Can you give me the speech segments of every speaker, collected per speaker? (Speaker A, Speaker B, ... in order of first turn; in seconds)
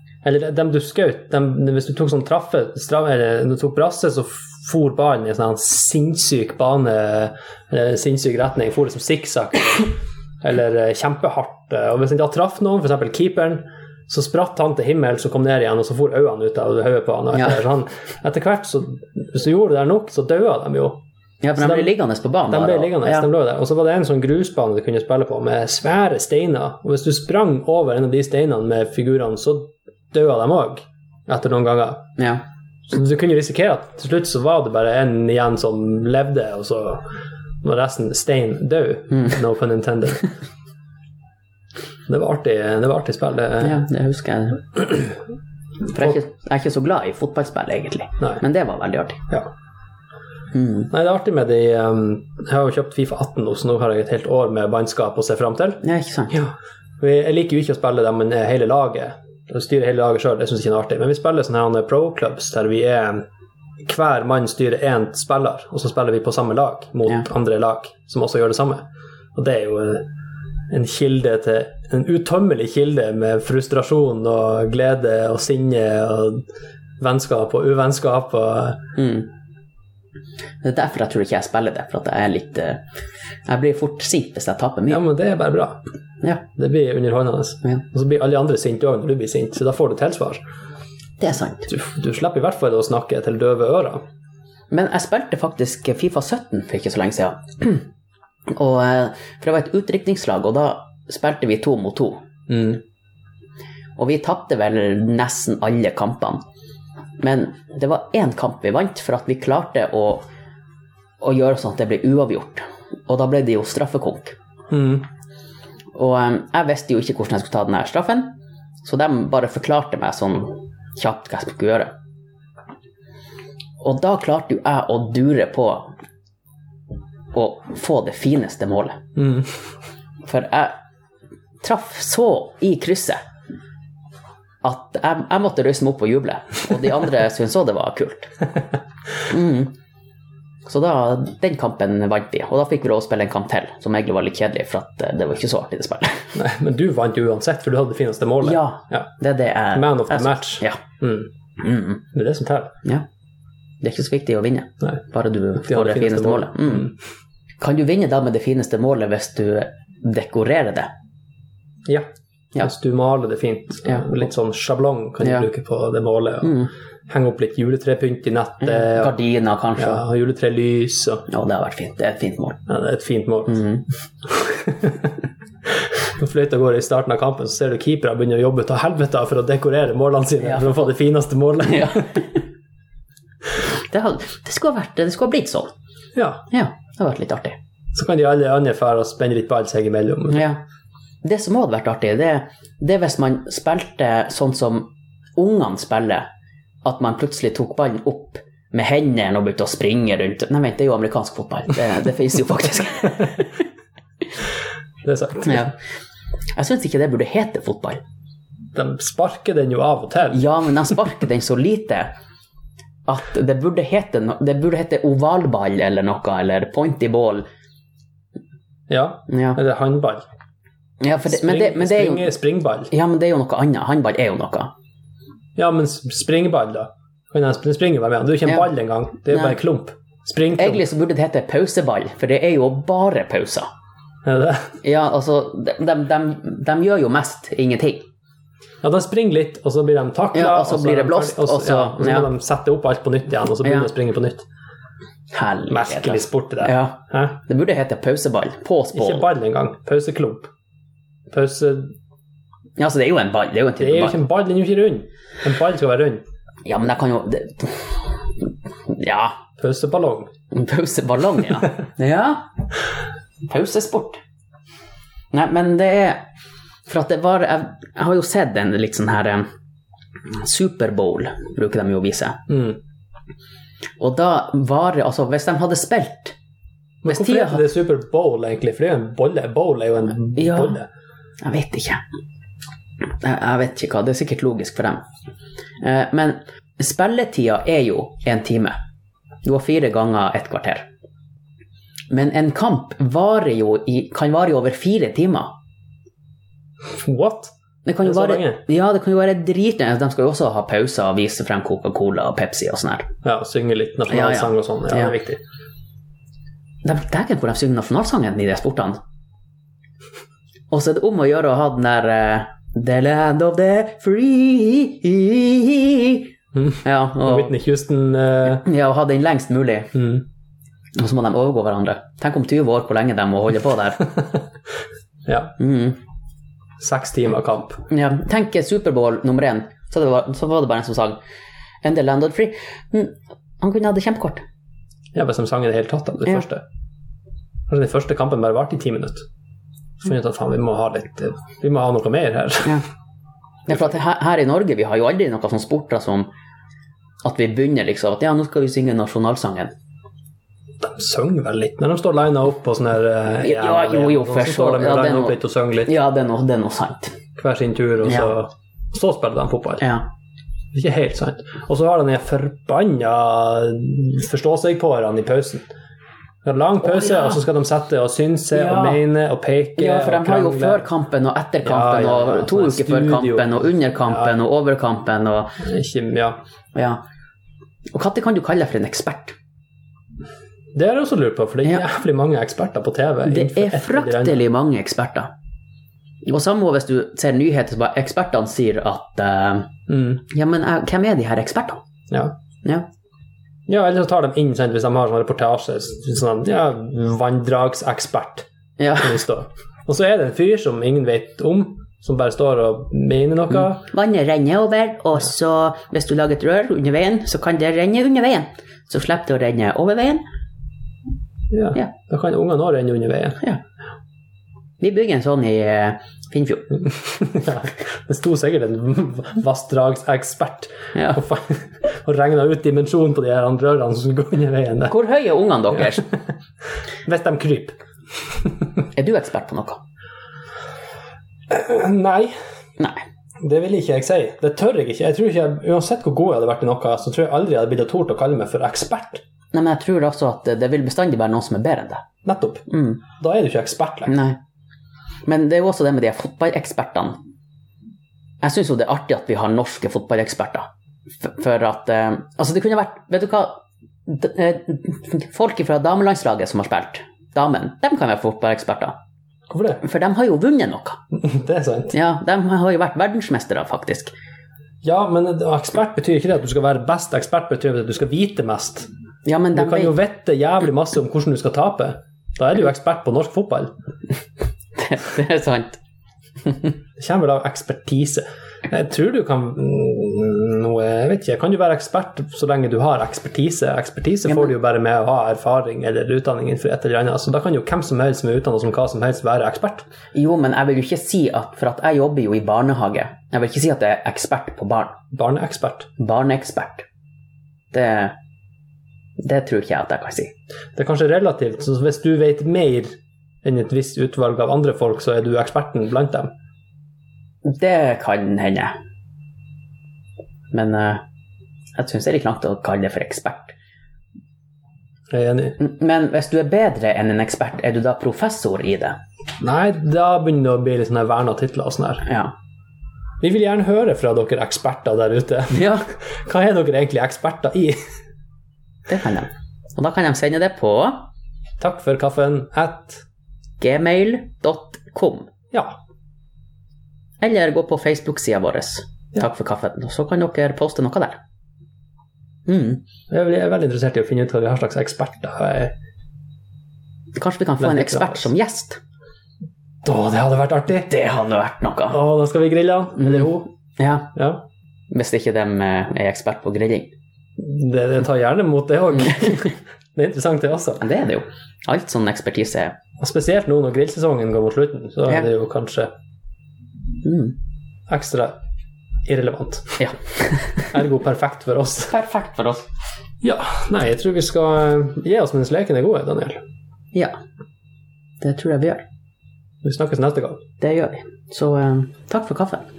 Speaker A: 0.2-21.0, 21.6-21.9, 22.5-32.1, 32.9-37.1, 37.6-40.3, 42.1-43.8, 50.9-63.2, 63.8-70.1, 70.7-76.5, 77.0-78.8, 84.9-85.8, 86.5-90.4, 91.7-94.0, 102.5-102.8, 114.7-115.1, 129.2-129.5, 146.3-149.1, 149.7-151.3, 152.1-152.8, 155.6-156.9, 161.9-169.2, 169.8-171.3, 172.7-173.7, 174.2-175.1, 175.7-182.2, 186.2-186.4, 187.9-190.5, 205.0-205.7, 208.7-210.4, 218.9-220.2, 221.3-222.9, 225.6-230.8, 234.2-234.8, 238.8-244.4, 245.7-247.4, 248.9-250.5, 251.3-251.9, 253.8-256.2, 259.6-260.3, 272.5-272.8, 277.0-280.9, 296.9-297.5, 298.0-298.6, 303.2-305.4, 316.5-318.7, 319.9-320.2, 325.3-325.6, 326.8-327.8, 335.1-336.6, 337.7-339.2, 340.0-342.8, 350.8-355.9, 357.4-359.9, 360.7-365.7, 366.4-370.9, 371.6-374.4, 375.6-376.4, 380.7-384.4, 389.9-390.2, 392.1-392.4, 393.7-403.9, 411.5-413.4, 416.8-424.9, 427.1-427.8, 431.5-432.4, 433.4-439.2, 442.2-444.1, 459.5-459.8, 461.1-461.9, 464.8-468.9, 469.5-473.7, 477.0-489.9, 495.1-495.9, 500.8-506.3, 515.1-515.6, 519.4-522.0, 523.2-527.8, 531.6-533.0, 535.5-535.8, 543.1-545.8, 547.6-548.3, 549.8-550.9, 551.9-553.5, 554.1-554.5, 557.4-560.8, 563.0-565.9, 567.9-568.4, 569.0-570.0, 570.6-571.9, 573.2-576.4, 579.6-580.4
Speaker B: 21.4-23.3, 32.2-32.4, 43.6-44.8, 45.9-49.3, 50.5-50.9, 55.8-56.4, 79.0-79.3, 80.6-82.8, 83.5-85.0, 91.2-91.7, 94.7-97.9, 98.5-102.2, 104.0-106.4, 107.2-110.2, 111.2-114.4, 115.9-121.9, 123.8-125.9, 127.3-129.1, 130.2-130.8, 131.6-133.2, 134.6-138.3, 139.3-139.7, 140.7-146.3, 148.4-150.8, 151.6-152.0, 153.8-156.9, 157.6-160.9, 166.4-166.7, 168.6-170.0, 171.3-172.6, 173.5-173.8, 180.4-180.8, 181.6-182.3, 183.8-185.7, 186.5-187.6, 190.3-190.6, 191.2-196.3, 196.8-203.6, 205.5-205.7, 206.6-208.0, 210.3-212.1, 213.1-217.5, 219.3-219.6, 221.0-222.3, 222.9-224.7, 229.3-229.6, 230.6-233.7, 234.8-238.1, 240.3-242.3, 245.3-249.3, 252.8-254.2, 256.6-258.1, 258.9-259.4, 260.5-262.5, 263.4-264.2, 265.3-266.2, 266.9-269.5, 270.3-272.5, 274.0-276.4, 277.1-277.6, 280.4-280.8, 281.4-282.0, 283.2-285.0, 285.8-288.8, 289.4-290.9, 292.1-295.5, 297.9-303.1, 304.1-305.1, 306.8-309.0, 310.7-316.3, 316.8-317.5, 318.5-320.1, 320.9-324.1, 325.6-326.0, 327.9-331.2, 331.8-334.4, 343.7-346.3, 347.2-349.7, 353.4-357.2, 358.1-358.3, 359.8-360.1, 366.8-367.4, 368.5-369.0, 369.8-375.6, 376.8-377.0, 377.9-379.4, 383.3-385.3, 386.2-391.8, 398.8-399.2, 403.9-410.2, 414.8-416.8, 420.9-421.2, 424.9-426.1, 428.9-429.8, 439.5-442.0, 442.7-443.0, 444.1-444.4, 445.3-447.2, 448.4-450.7, 451.2-459.0, 459.8-461.0, 461.9-464.1, 469.2-470.0, 474.8-475.8, 490.1-495.0, 496.0-496.9, 497.7-498.2, 499.2-500.3, 507.4-508.8, 510.5-511.0, 511.8-513.5, 515.6-519.0, 522.0-522.3, 525.5-525.9, 528.9-531.1, 533.6-535.3, 537.2-541.2, 542.5-542.8, 547.2-548.8, 550.9-552.0, 553.0-554.1, 554.9-556.9, 559.1-559.5, 560.8-562.8, 567.0-567.4, 569.8-570.7, 571.9-572.7, 578.2-578.8, 580.6-582.7